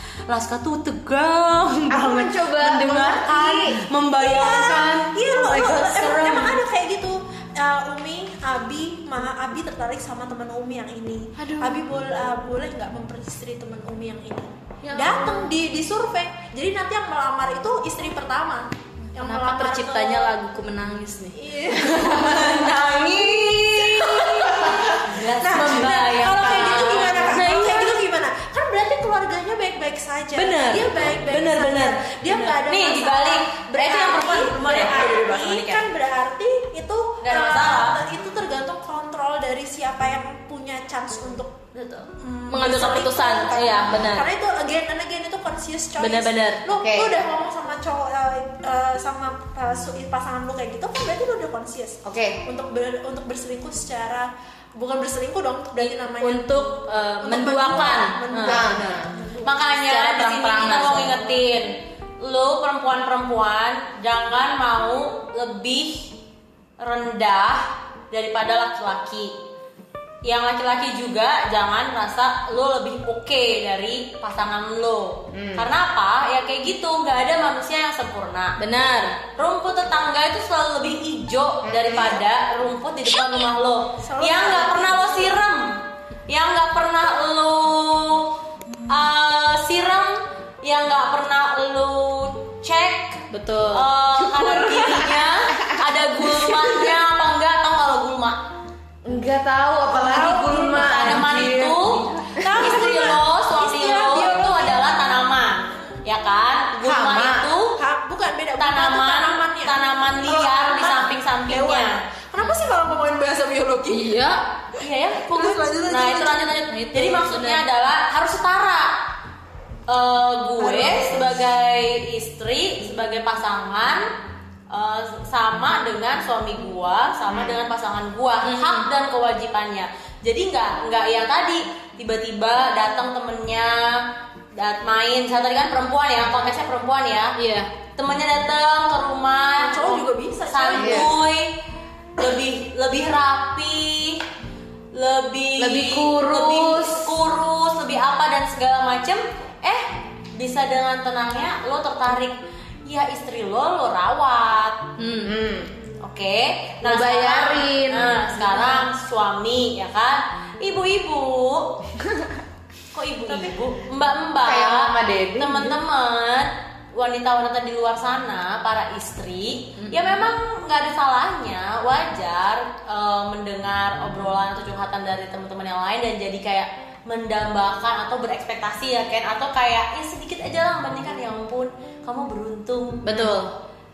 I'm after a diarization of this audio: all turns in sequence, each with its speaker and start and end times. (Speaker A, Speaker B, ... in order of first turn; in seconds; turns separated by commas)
Speaker A: 0.3-6.6, Speaker B: 1.9-3.8, Speaker C: 4.2-20.3, Speaker D: 11.4-11.8, Speaker D: 14.8-15.4, Speaker D: 19.1-28.0, Speaker C: 21.3-22.6, Speaker A: 21.8-27.6, Speaker C: 24.7-41.6, Speaker D: 30.3-32.5, Speaker A: 32.5-35.8, Speaker A: 37.2-38.0, Speaker A: 41.8-42.1, Speaker C: 42.2-59.5, Speaker D: 42.5-44.3, Speaker D: 46.0-46.6, Speaker B: 46.8-47.1, Speaker B: 52.0-52.4, Speaker D: 55.8-58.8, Speaker B: 58.4-59.1, Speaker A: 59.4-66.1, Speaker D: 59.9-61.3, Speaker A: 66.8-69.3, Speaker A: 70.2-78.6, Speaker B: 75.3-75.7, Speaker D: 78.6-79.2, Speaker A: 79.3-88.3, Speaker B: 81.7-82.2, Speaker C: 84.0-85.2, Speaker A: 88.9-98.5, Speaker D: 93.3-95.2, Speaker B: 99.0-102.6, Speaker C: 100.0-101.0, Speaker A: 100.5-102.1, Speaker D: 101.2-101.5, Speaker C: 102.3-104.9, Speaker A: 102.6-107.8, Speaker B: 106.8-107.5, Speaker C: 107.8-114.2, Speaker A: 108.6-112.0, Speaker D: 113.9-114.5, Speaker A: 114.8-119.0, Speaker C: 115.3-116.5, Speaker D: 116.7-117.6, Speaker A: 119.9-124.1, Speaker C: 120.6-121.4, Speaker A: 124.7-137.4, Speaker B: 127.3-127.6, Speaker D: 128.4-128.9, Speaker D: 137.4-137.7, Speaker A: 138.0-141.6, Speaker C: 139.6-141.2, Speaker B: 140.7-141.2, Speaker A: 142.2-144.2, Speaker A: 144.9-154.9, Speaker B: 145.6-147.2, Speaker D: 155.0-155.4, Speaker B: 155.2-155.7, Speaker A: 156.0-161.8, Speaker B: 156.8-158.3, Speaker A: 162.9-183.4, Speaker B: 164.4-165.8, Speaker D: 169.8-170.2, Speaker D: 183.1-183.5